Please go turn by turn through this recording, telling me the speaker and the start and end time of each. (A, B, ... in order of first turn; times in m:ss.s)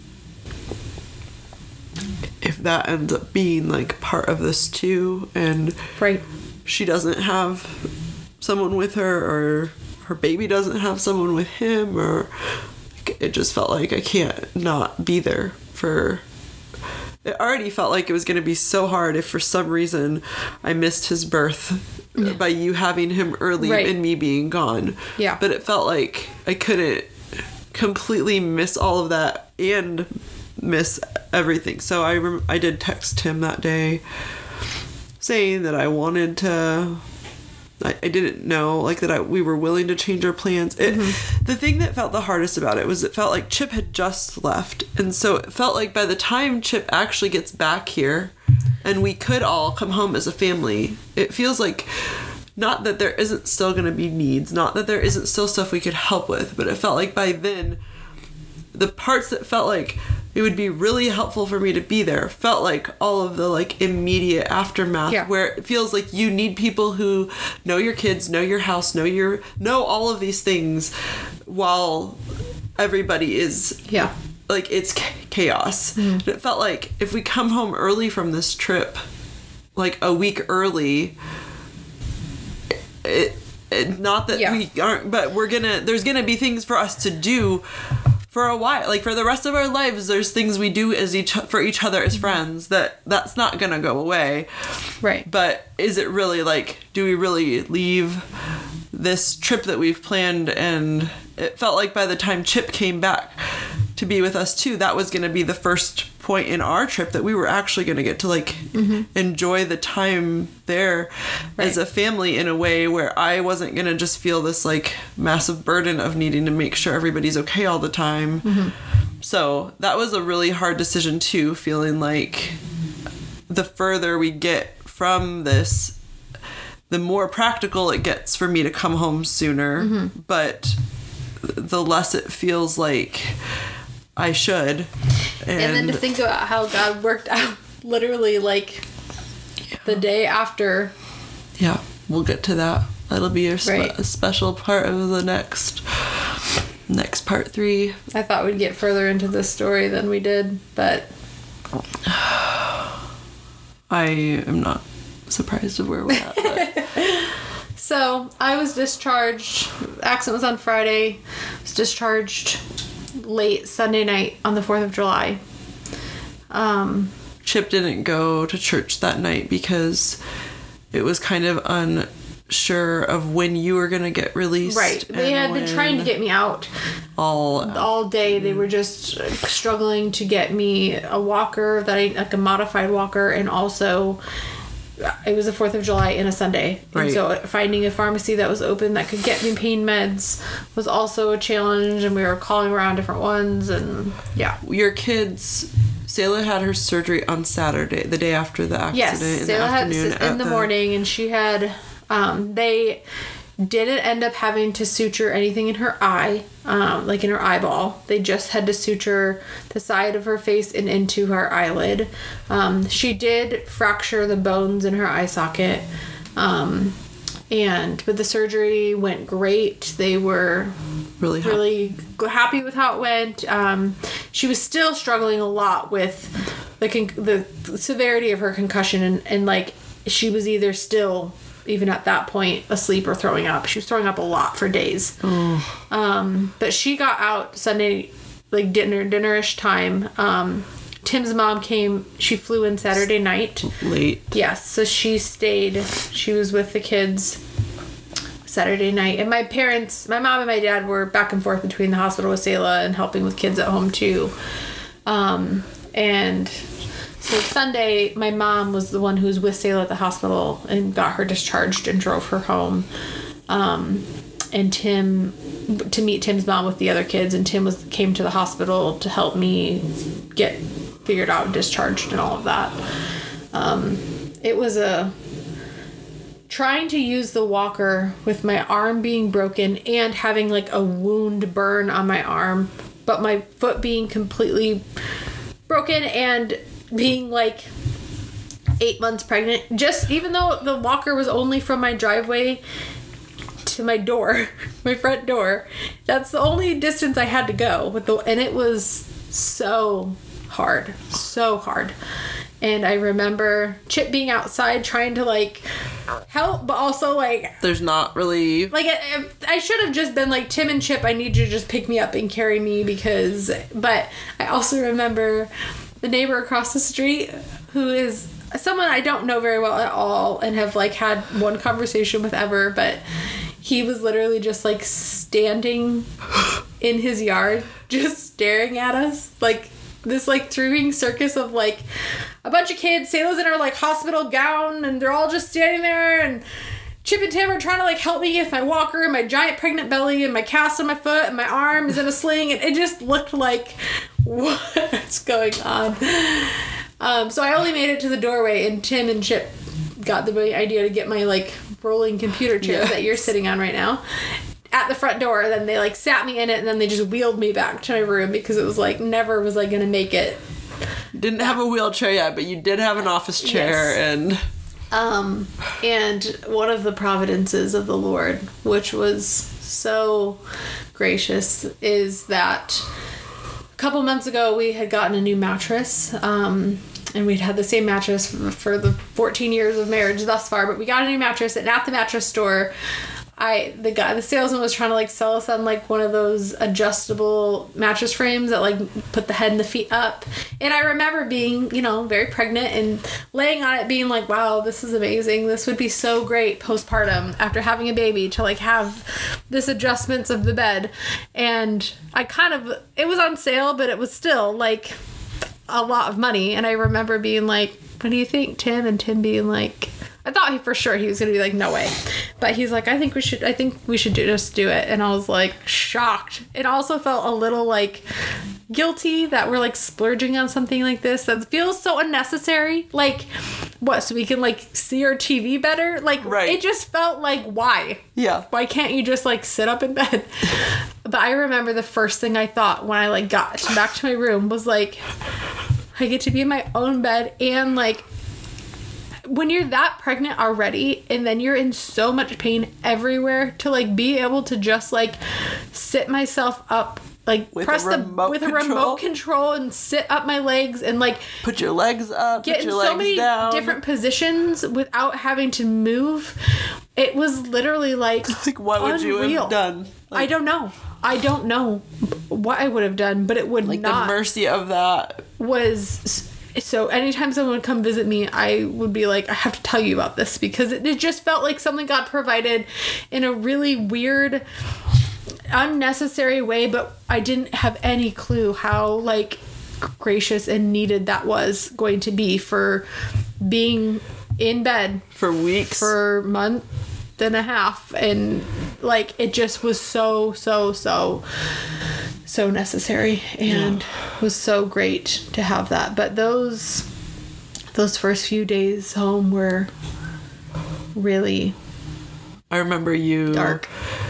0:02.4-0:05.8 A
0:06.0-0:06.2 B
0:06.6-0:16.2 A
0:17.2-0:27.1 A
0:23.6-0:23.9 B
0:27.7-0:34.0 A
0:35.2-0:37.0 A
0:37.8-0:57.8 A
0:40.8-0:41.2 B
0:58.7-1:10.9 A
1:11.4-1:12.2 A
1:12.8-1:13.9 A
1:14.5-1:19.0 A
1:16.0-1:16.2 B
1:19.8-1:21.2 A
1:23.0-1:27.6 A
1:24.3-1:24.6 B
1:28.3-1:34.6 A
1:35.2-1:38.3 A
1:38.9-1:58.7 A
1:48.7-1:49.1 B
1:58.4-1:58.7 B
1:59.2-2:02.6 A
2:03.5-2:06.0 A
2:06.9-2:10.8 A
2:09.8-2:10.1 B
2:11.4-2:13.4 A
2:14.2-2:14.9 A
2:15.4-2:16.0 A
2:15.6-2:18.9 B
2:19.8-2:20.9 B
2:21.6-2:26.2 A
2:23.6-2:24.0 B
2:26.9-2:28.0 A
2:28.1-2:31.1 B
2:32.1-2:32.8 A
2:33.9-2:36.7 A
2:36.2-2:42.6 B
2:43.2-2:45.4 B
2:46.5-2:47.1 B
2:47.4-2:50.2 A
2:50.9-2:56.1 A
2:54.7-2:56.7 B
2:57.2-2:58.6 A
2:57.6-3:04.2 B
3:05.0-3:14.6 B
3:06.9-3:07.2 A
3:14.6-3:20.7 A
3:18.9-3:23.0 B
3:23.6-3:35.8 B
3:36.4-3:37.0 B
3:37.5-3:40.8 B
3:41.2-3:41.6 A
3:41.4-3:55.2 B
3:55.2-3:55.8 A
3:55.9-4:03.7 B
4:03.6-4:04.3 A
4:04.3-4:07.4 B
4:08.4-4:14.3 B
4:15.1-4:16.6 B
4:17.2-4:22.9 B
4:23.5-4:32.8 B
4:33.5-4:35.1 B
4:36.5-4:44.8 B
4:45.7-4:47.7 B
4:48.8-4:52.6 B
4:53.6-5:02.0 B
5:02.6-5:05.6 B
5:06.3-5:07.6 B
5:07.6-5:08.7 A
5:08.7-5:15.5 B
5:16.0-5:23.0 B
5:23.6-5:26.1 B
5:26.8-5:31.8 B
5:32.4-5:36.4 B
5:37.0-5:54.0 B
5:52.6-5:53.1 A
5:54.7-6:00.4 B
6:01.1-6:04.4 A
6:03.4-6:04.0 B
6:04.9-6:10.4 B
6:11.0-6:12.9 B
6:13.8-6:22.7 B
6:23.4-6:45.0 B
6:45.7-6:58.0 B
6:58.7-7:03.3 B
7:03.8-7:15.0 B
7:06.2-7:06.6 A
7:08.2-7:08.5 A
7:16.0-7:18.0 B
7:19.3-7:25.2 B
7:25.7-7:31.4 B
7:27.5-7:29.0 A
7:31.4-7:33.8 A
7:32.4-7:36.4 B
7:37.0-7:39.6 B
7:38.3-7:40.3 A
7:40.1-7:44.2 B
7:43.6-7:45.3 A
7:45.4-7:54.4 B
7:55.5-8:02.8 B
8:03.4-8:05.1 B
8:05.2-8:05.9 A
8:05.7-8:06.6 B
8:07.2-8:11.2 B
8:12.3-8:16.9 B
8:13.5-8:13.8 A
8:17.7-8:19.7 B
8:21.0-8:21.6 B
8:22.5-8:23.7 A
8:23.3-8:23.7 B